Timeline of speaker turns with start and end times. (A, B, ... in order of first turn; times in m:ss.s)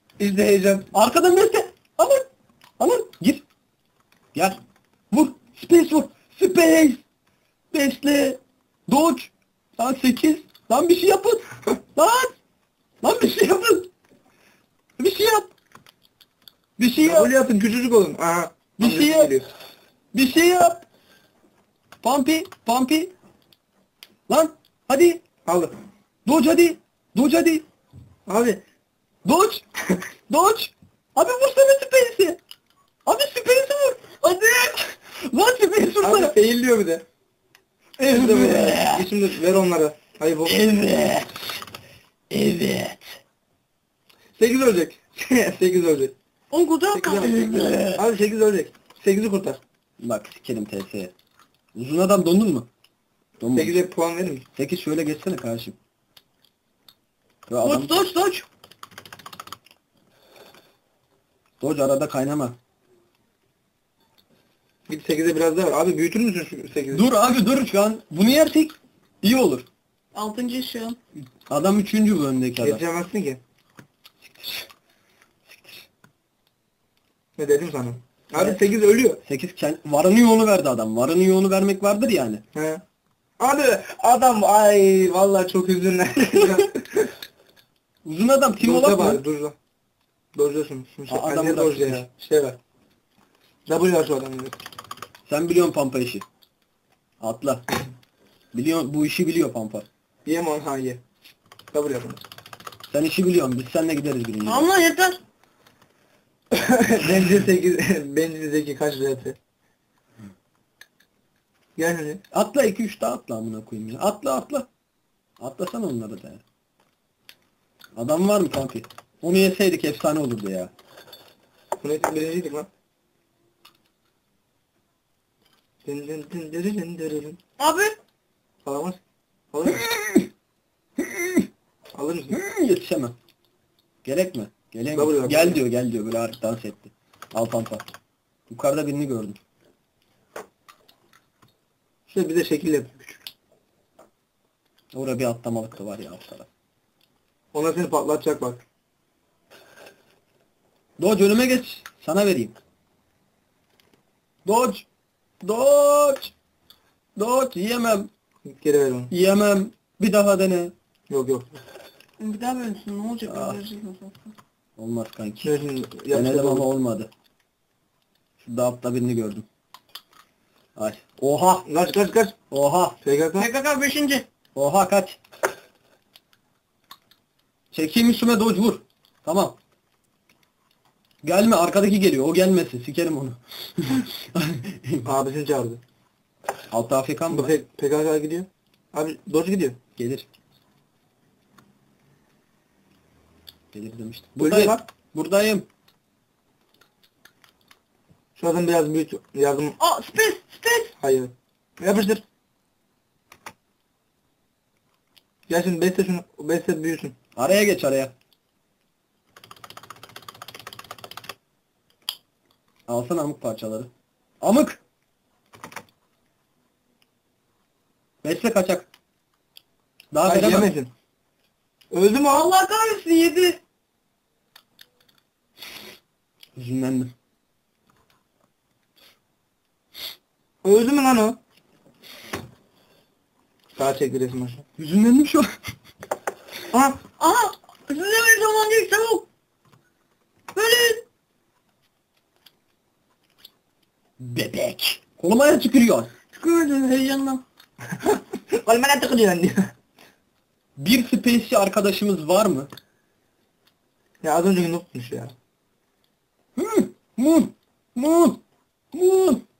0:00.2-0:00.9 A
0:00.9-0:03.4 B
0:04.3-0:04.6 B
0:05.1-0:07.0 B
0:07.7-0:12.4 B
0:13.0-0:13.9 B
0:15.0-0:15.5 B
0:16.8-0:17.3 B
0:17.0-0:19.5 A
0:18.8-0:19.4 B
0:20.1-0:20.8 B
0:22.0-0:23.1 B
0:24.3-0:25.2 B
0:25.4-0:25.7 A
0:26.2-0:27.6 B
0:28.3-0:28.6 A
0:29.2-0:32.4 B
0:33.0-0:34.2 B
0:34.2-0:34.8 C
0:34.8-0:36.4 B
0:36.0-0:37.0 A
0:38.0-0:40.6 A
0:38.1-0:39.2 B
0:40.4-0:41.6 B
0:42.3-0:43.2 B
0:44.4-0:46.1 A
0:46.5-0:47.7 C
0:46.9-0:49.6 A
0:47.2-0:48.0 B
0:50.0-0:51.1 B
0:51.7-0:52.7 B
0:53.4-0:53.8 B
0:53.5-0:54.4 A
0:54.6-0:55.8 B
0:57.5-0:58.0 B
0:57.6-0:58.4 C
1:01.6-1:02.6 B
1:04.9-1:07.0 A
1:06.9-1:09.7 B
1:10.1-1:11.0 C
1:11.5-1:12.8 B
1:12.6-1:13.4 A
1:14.2-1:14.7 B
1:15.5-1:15.9 B
1:17.4-1:19.2 A
1:19.2-1:22.4 B
1:22.5-1:22.8 A
1:23.4-1:27.1 A
1:28.0-1:29.2 B
1:28.6-1:29.6 A
1:30.3-1:32.6 A
1:31.1-1:32.0 B
1:33.7-1:34.6 A
1:35.3-1:36.2 B
1:37.2-1:37.7 B
1:38.5-1:39.8 B
1:40.2-1:41.0 A
1:41.7-1:42.2 A
1:42.9-1:44.7 B
1:44.4-1:45.2 C
1:46.5-1:49.4 A
1:51.8-1:52.2 A
1:52.3-1:54.7 B
1:55.4-1:56.4 B
1:57.9-2:00.7 B
2:01.8-2:02.7 A
2:05.8-2:07.4 A
2:07.6-2:08.0 C
2:08.6-2:09.0 A
2:09.5-2:09.9 A
2:09.7-2:10.3 B
2:11.0-2:11.5 B
2:11.9-2:12.4 A
2:12.3-2:13.1 B
2:14.0-2:17.8 B
2:14.9-2:15.6 A
2:18.5-2:19.4 B
2:22.1-2:23.3 A
2:24.9-2:26.5 B
2:27.5-2:28.6 A
2:31.0-2:32.5 B
2:34.4-2:34.8 B
2:35.4-2:36.3 B
2:37.2-2:38.1 B
2:38.4-2:39.1 A
2:39.1-2:40.7 B
2:41.1-2:41.6 A
2:42.2-2:44.3 C
2:43.2-2:43.6 B
2:44.8-2:45.6 B
2:45.4-2:46.7 A
2:46.1-2:47.1 B
2:48.4-2:49.4 B
2:50.8-2:51.6 B
2:51.6-2:52.4 A
2:52.5-2:53.0 B
2:53.0-2:53.5 A
2:53.4-2:54.2 C
2:54.5-2:55.2 B
2:57.7-2:59.6 B
3:01.2-3:05.1 B
3:05.0-3:05.8 A
3:06.7-3:07.5 B
3:07.3-3:09.8 A
3:10.0-3:10.3 B
3:13.7-3:15.6 B
3:14.4-3:14.8 A
3:18.4-3:19.8 A
3:19.8-3:20.9 C
3:21.0-3:22.2 A
3:25.5-3:27.2 A
3:27.4-3:28.1 B
3:32.9-3:34.8 B
3:38.2-3:38.9 B
3:40.1-3:40.7 B
3:40.2-3:40.9 A
3:41.9-3:42.5 A
3:42.3-3:43.6 C
3:46.6-3:47.1 B
3:50.6-3:51.4 A
3:53.7-3:54.6 A
3:54.8-3:55.5 B
3:56.7-3:57.0 A
3:57.2-3:59.2 C
4:00.5-4:01.0 C
4:04.2-4:06.1 B
4:06.3-4:07.4 C
4:07.9-4:09.7 A
4:10.8-4:12.7 B
4:14.2-4:15.4 A
4:16.6-4:18.4 B
4:18.9-4:19.4 B